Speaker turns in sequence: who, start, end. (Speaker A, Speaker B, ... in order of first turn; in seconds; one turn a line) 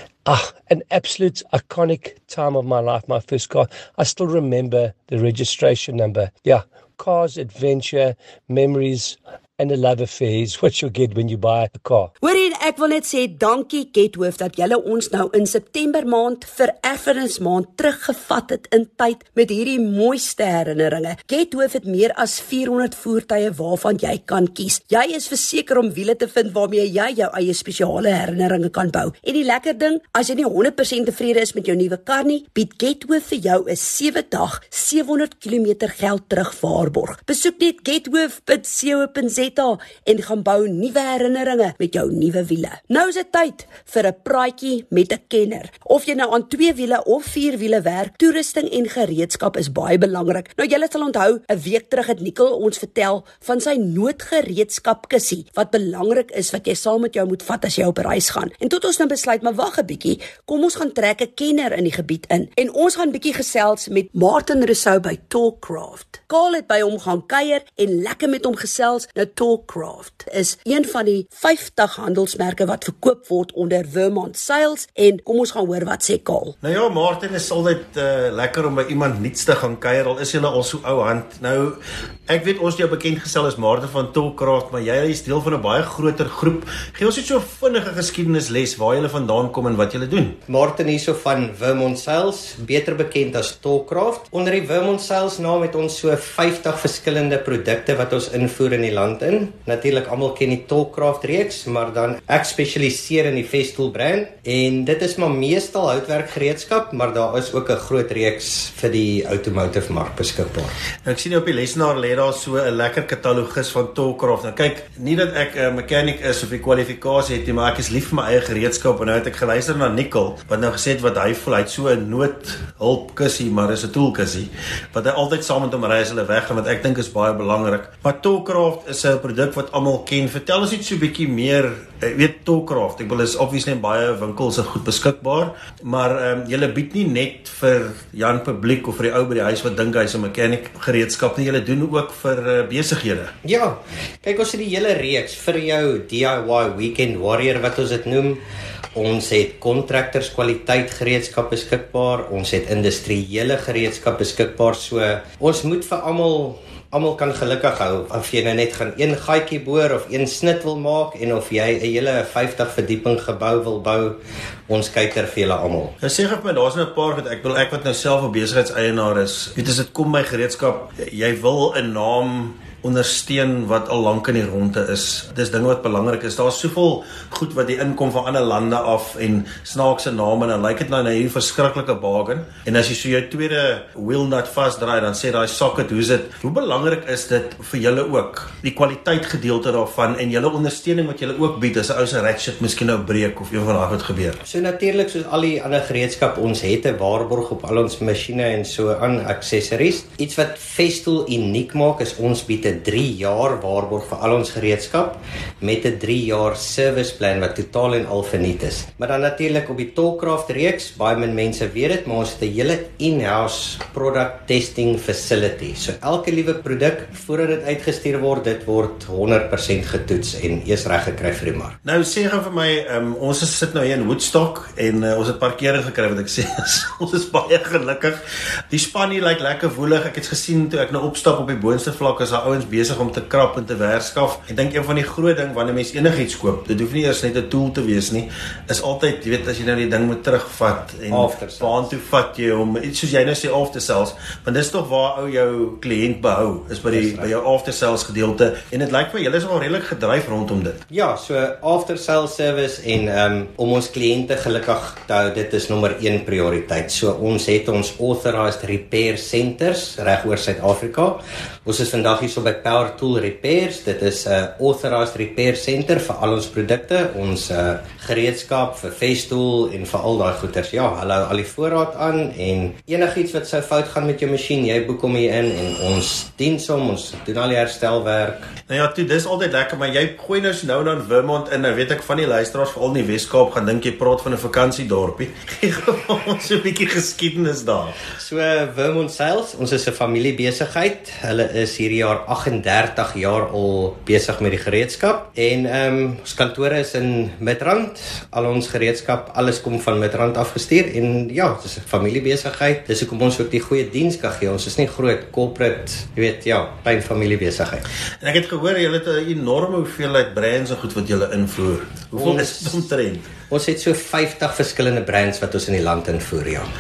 Speaker A: 0.2-12.1
Speaker B: 12.2-76.6
Speaker C: 76.6-90.4
Speaker D: 90.5-110.7
Speaker C: 111.1-143.3
Speaker D: 143.4-148.4
Speaker D: 148.9-165.9
Speaker C: 166.0-194.4
Speaker D: 194.5-221.8
Speaker C: 221.8-228.2
Speaker C: 228.7-250.8
Speaker D: 241.1-241.9
Speaker D: 246.9-247.3
Speaker D: 250.9-278.5
Speaker C: 278.7-288.0
Speaker D: 288.1-307.9
Speaker C: 308.2-313.3
Speaker D: 312.1-312.8
Speaker D: 313.5-316.7